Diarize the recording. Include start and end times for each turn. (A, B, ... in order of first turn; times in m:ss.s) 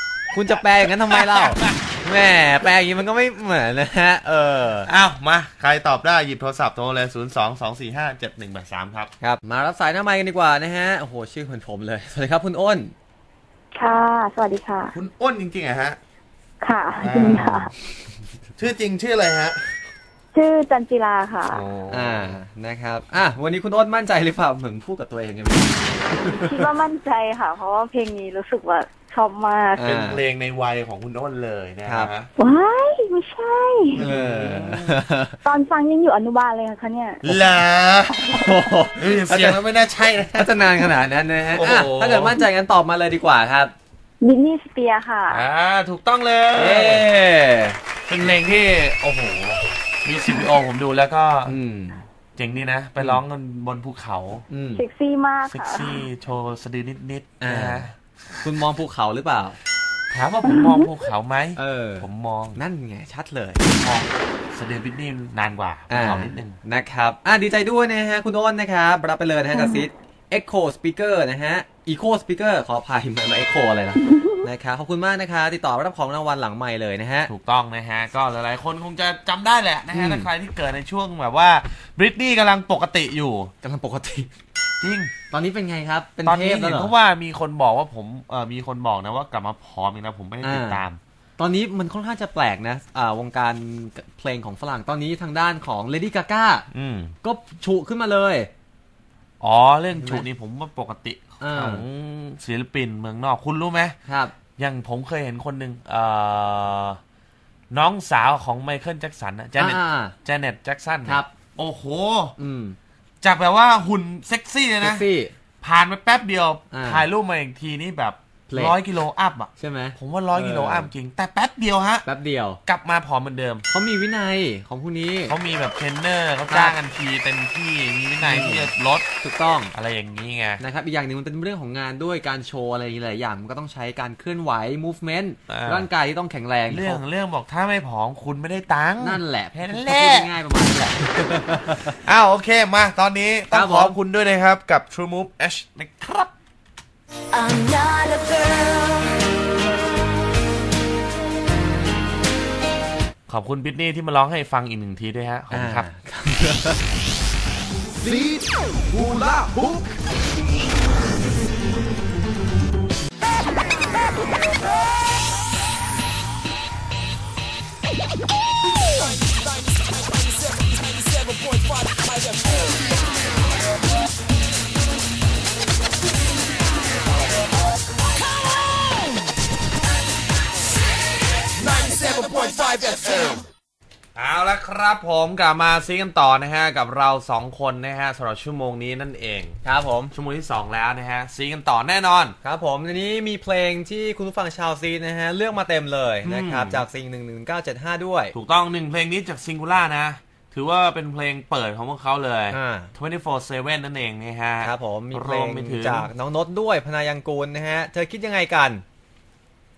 0:00.3-0:04.9 A
0:01.1-0:01.8 B
0:04.8-0:09.1 B
0:09.2-0:12.9 A
0:13.8-0:14.9 C
0:14.9-0:16.0 B
0:16.6-0:17.7 C
0:17.0-0:17.7 B
0:17.2-0:17.6 A
0:18.6-0:19.8 B
0:20.3-0:21.6 C
0:21.5-0:22.4 B
0:21.9-0:26.7 A
0:26.1-0:29.8 C
0:29.7-0:30.2 A
0:29.8-0:32.3 B
0:31.8-0:32.1 A
0:32.4-0:34.0 C
0:33.9-0:35.4 A
0:34.0-0:35.0 B
0:35.4-0:37.2 C
0:37.2-0:40.9 B
0:38.3-0:39.6 A
0:40.3-0:43.7 A
0:41.5-0:42.4 B
0:44.2-0:45.4 C
0:45.3-0:47.0 B
0:46.6-0:47.8 A
0:48.1-0:51.6 B
0:51.4-0:52.0 A
0:52.4-0:54.4 B
0:54.5-0:54.8 A
0:54.8-0:56.0 C
0:55.5-0:58.4 B
0:57.4-0:57.9 A
0:58.4-0:59.6 A
1:00.1-1:02.6 B
1:01.6-1:04.1 A
1:04.5-1:06.6 B
1:05.9-1:17.3 A
1:09.5-1:09.8 C
1:17.3-1:23.5 B
1:19.9-1:20.3 A
1:23.6-1:24.3 A
1:24.8-1:25.1 B
1:25.3-1:26.9 A
1:26.2-1:31.0 B
1:30.4-1:30.8 A
1:31.4-1:36.7 A
1:36.7-1:37.1 B
1:37.2-1:38.5 A
1:39.4-1:44.0 B
1:40.0-1:40.2 A
1:41.4-1:41.8 A
1:44.1-1:44.3 A
1:44.6-1:47.0 B
1:47.7-1:52.3 B
1:49.6-1:50.1 A
1:51.0-1:51.3 A
1:52.4-1:52.8 A
1:53.2-1:55.0 B
1:54.8-1:55.3 A
1:55.6-2:02.0 B
1:56.7-1:57.0 A
1:59.6-2:00.9 A
2:02.0-2:02.6 A
2:02.6-2:03.6 B
2:03.7-2:05.3 A
2:05.3-2:09.1 B
2:06.5-2:06.8 A
2:08.2-2:08.7 A
2:09.2-2:09.7 A
2:09.7-2:10.6 B
2:10.6-2:17.0 A
2:15.5-2:15.9 B
2:16.7-2:20.3 B
2:19.0-2:22.0 A
2:22.0-2:26.3 B
2:23.5-2:24.0 A
2:33.3-2:35.9 B
2:35.5-2:36.8 A
2:38.0-2:39.8 B
3:01.9-3:03.4 C
3:04.1-3:09.6 B
3:09.6-3:10.1 A
3:10.1-3:12.3 B
3:12.4-3:18.3 A
3:16.2-3:16.8 B
3:18.3-3:26.1 B
3:22.5-3:22.9 A
3:24.6-3:28.8 A